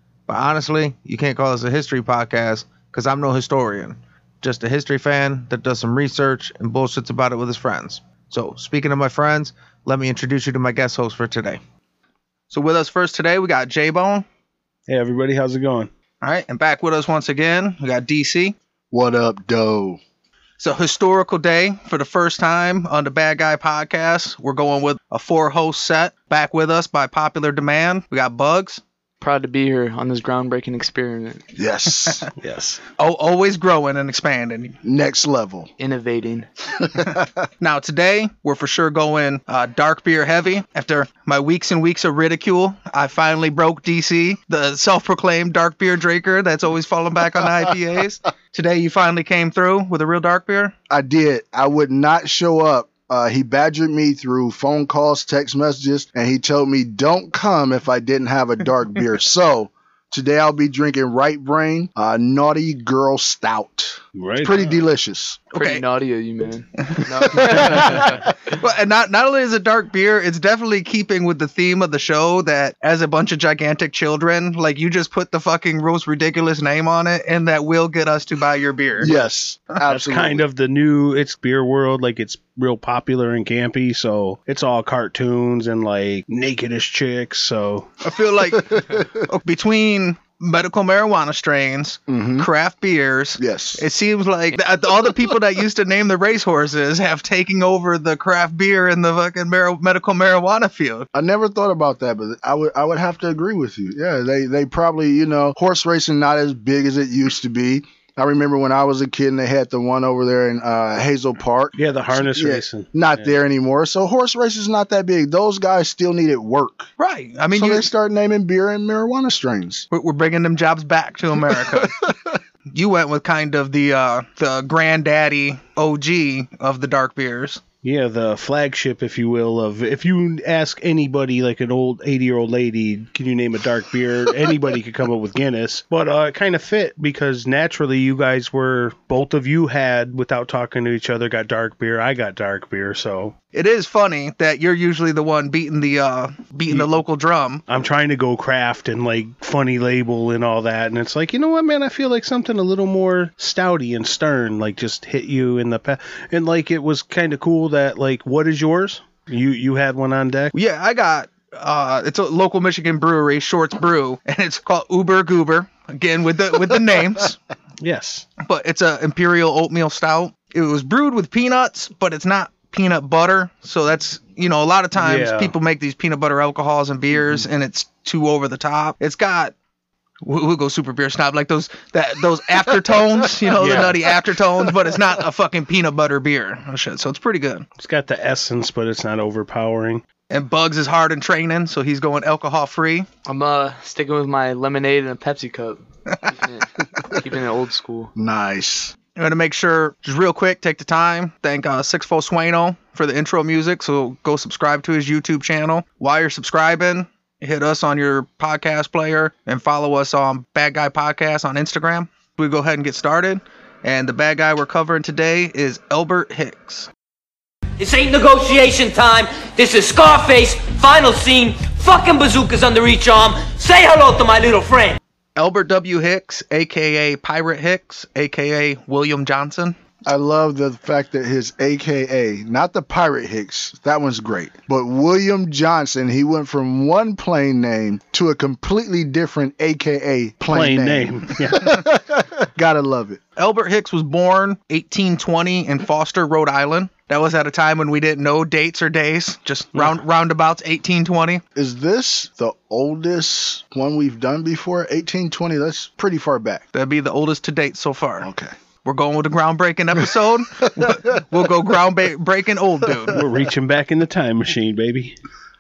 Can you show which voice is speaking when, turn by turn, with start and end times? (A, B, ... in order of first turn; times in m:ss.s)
0:00.3-0:11.6 A
0:12.5-0:14.2 A
0:14.9-0:15.9 B
0:16.2-0:18.6 A
0:18.9-0:20.0 C
0:20.6-0:28.8 A
0:29.2-0:31.5 D
0:31.6-0:32.3 C
0:32.4-0:32.8 B
0:33.0-0:34.8 A
0:34.8-0:35.7 C
0:35.8-0:36.5 D
0:37.6-0:50.8 A
0:50.9-1:05.4 C
1:04.2-1:04.8 B
1:05.6-1:05.8 A
1:05.6-1:08.6 D
1:07.4-1:07.9 C
1:08.5-1:19.1 A
1:19.0-1:20.5 C
1:19.9-1:27.9 B
1:28.0-1:41.1 A
1:32.1-1:32.5 C
1:33.4-1:33.8 C
1:41.1-1:56.9 C
1:51.8-1:53.3 B
1:57.0-1:57.9 A
1:57.5-1:59.9 C
1:59.9-2:02.0 A
2:01.7-2:02.1 C
2:02.7-2:07.6 A
2:07.8-2:23.3 B
2:23.5-2:27.6 A
2:27.7-2:40.5 B
2:40.5-2:47.4 A
2:47.8-2:48.3 B
2:48.4-2:59.5 A
2:55.0-2:55.5 B
3:00.2-3:07.7 A
3:03.6-3:04.0 B
3:07.8-3:10.0 B
3:10.3-3:13.1 A
3:13.3-3:18.1 D
3:18.2-3:18.9 C
3:19.2-3:36.9 A
3:37.8-3:45.0 E
3:45.4-3:49.8 A
3:50.1-4:03.2 C
4:00.5-4:01.8 B
4:03.4-4:11.4 A
4:11.6-4:16.6 C
4:16.7-4:18.3 A
4:18.2-4:18.5 C
4:18.8-4:23.2 A
4:23.1-4:25.2 B